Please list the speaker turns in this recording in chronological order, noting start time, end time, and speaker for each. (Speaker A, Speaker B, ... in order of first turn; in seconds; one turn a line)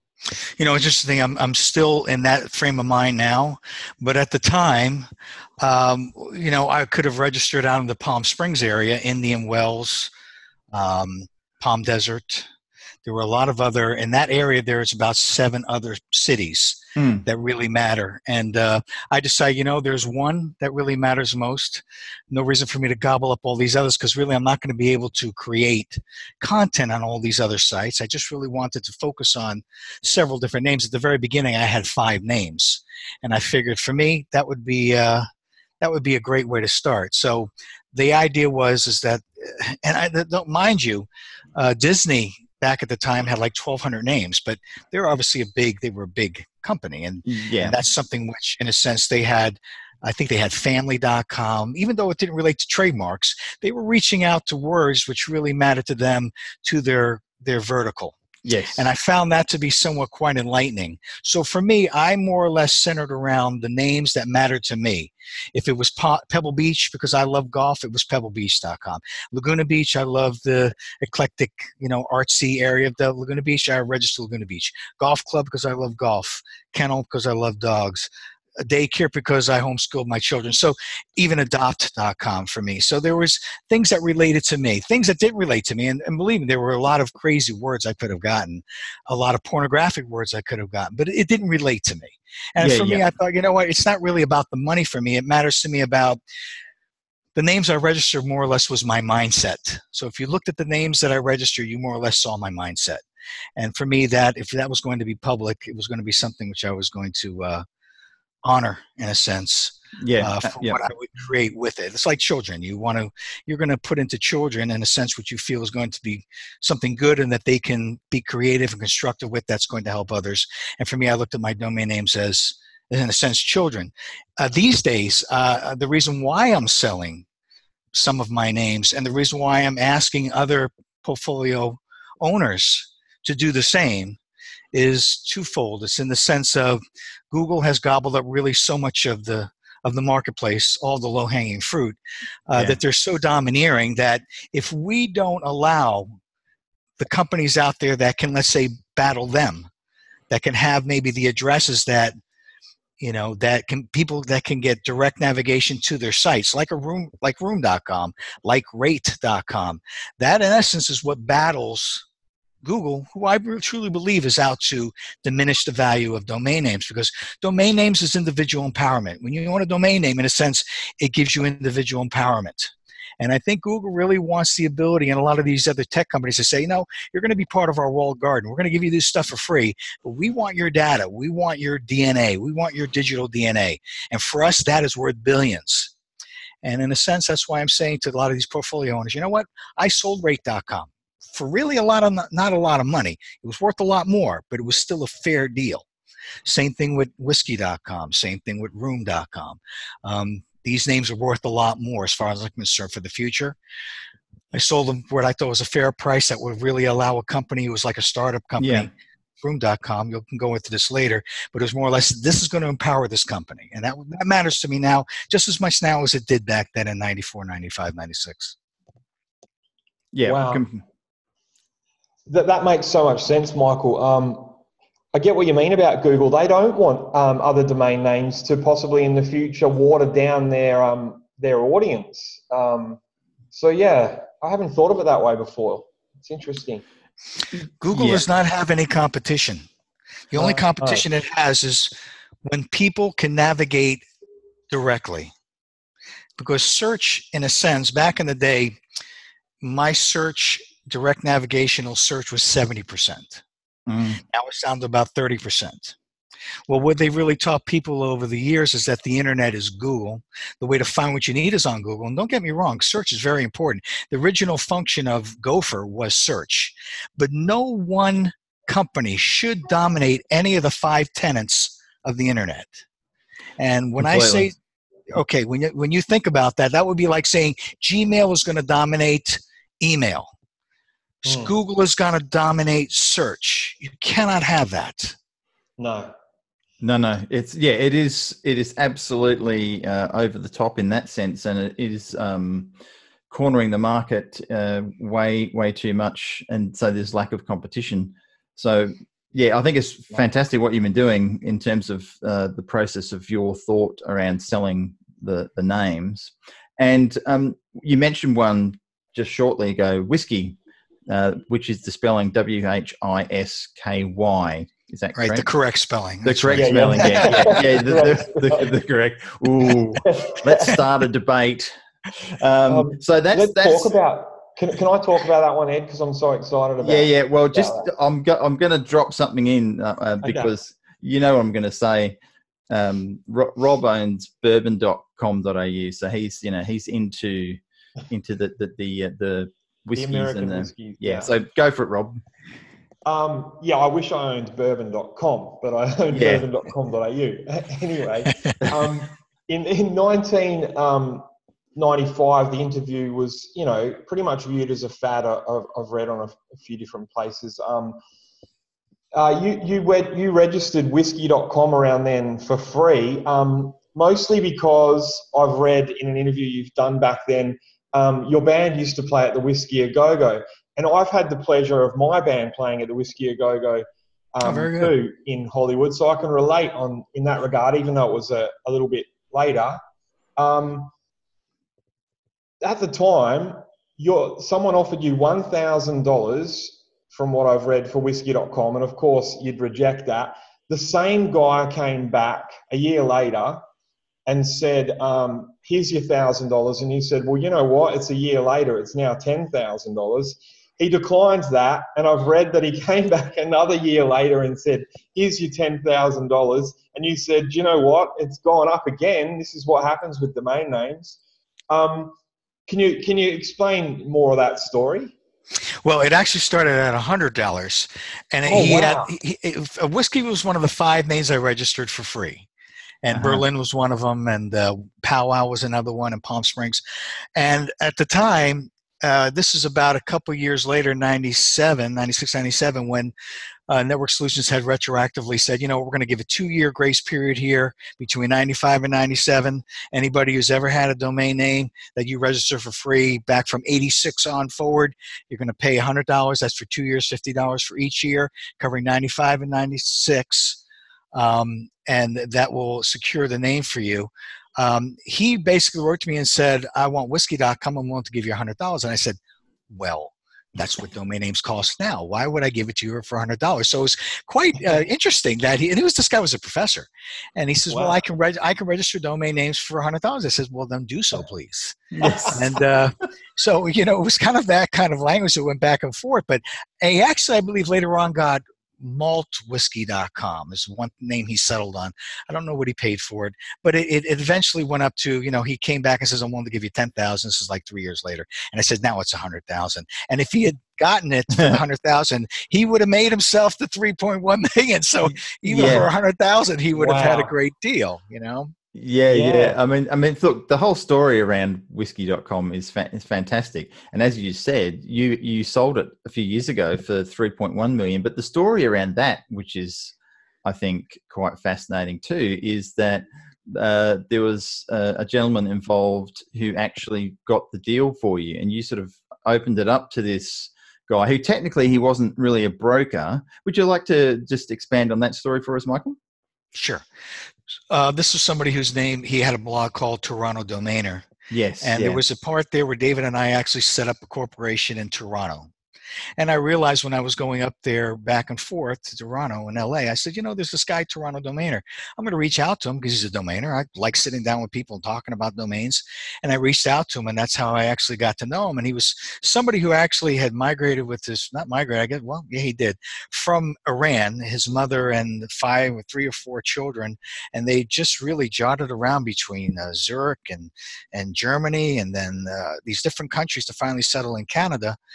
Speaker A: 0.6-5.1
Speaker A: 5.6-10.1
Speaker A: 10.7-12.5
Speaker A: 13.0-35.3
Speaker B: 17.0-17.2
Speaker A: 35.8-58.1
Speaker B: 47.2-47.8
Speaker B: 58.4-58.9
Speaker A: 58.8-96.2
Speaker B: 92.6-93.1
Speaker A: 97.4-103.0
Speaker A: 103.6-107.6
Speaker A: 108.4-127.2
Speaker B: 110.0-110.8
Speaker A: 127.9-134.2
Speaker A: 134.7-142.0
Speaker A: 142.5-146.1
Speaker B: 142.5-142.8
Speaker A: 147.0-149.7
Speaker A: 150.3-152.2
Speaker A: 153.0-162.0
Speaker A: 162.6-185.9
Speaker A: 186.6-195.8
Speaker A: 196.4-203.6
Speaker A: 204.5-208.9
Speaker B: 208.6-208.9
Speaker A: 209.4-218.5
Speaker B: 220.1-220.8
Speaker C: 220.2-220.6
Speaker C: 222.3-224.6
Speaker C: 225.1-233.0
Speaker C: 233.5-236.8
Speaker A: 237.8-239.7
Speaker B: 237.9-238.2
Speaker A: 240.3-241.9
Speaker C: 240.4-241.0
Speaker A: 242.4-244.0
Speaker A: 244.7-245.3
Speaker A: 246.4-248.8
Speaker A: 249.6-253.4
Speaker B: 253.9-254.2
Speaker A: 254.3-256.0
Speaker A: 256.7-272.9
Speaker A: 273.6-274.5
Speaker B: 274.0-274.5
Speaker A: 275.1-280.3
Speaker A: 281.2-285.1
Speaker C: 281.2-281.5
Speaker C: 285.8-286.1
Speaker B: 286.8-292.7
Speaker B: 293.3-310.6
Speaker B: 311.1-315.5
Speaker A: 315.1-317.6
Speaker B: 316.2-324.0
Speaker C: 316.5-318.7
Speaker C: 320.0-320.8
Speaker C: 322.7-327.9
Speaker B: 326.8-332.2
Speaker C: 330.2-330.5
Speaker B: 332.7-342.2
Speaker C: 340.0-341.3
Speaker C: 343.1-358.0
Speaker B: 346.1-346.5
Speaker C: 359.1-379.8
Speaker A: 374.4-374.9
Speaker C: 380.4-380.9
Speaker C: 382.6-393.6
Speaker C: 394.2-411.2
Speaker C: 411.7-412.1
Speaker C: 412.7-415.1
Speaker A: 415.8-422.5
Speaker C: 418.5-419.1
Speaker A: 423.0-426.8
Speaker B: 423.1-423.4
Speaker A: 427.4-433.1
Speaker A: 433.7-450.6
Speaker A: 451.1-459.2
Speaker A: 459.7-498.5
Speaker C: 467.7-468.0
Speaker B: 472.0-472.4
Speaker C: 472.0-472.3
Speaker B: 491.3-491.6
Speaker B: 495.5-495.9
Speaker C: 496.7-497.3
Speaker B: 498.8-526.0
Speaker C: 499.1-499.6
Speaker A: 526.5-526.8
Speaker A: 527.7-531.1
Speaker B: 531.3-532.0
Speaker A: 531.6-535.5
Speaker A: 536.2-564.8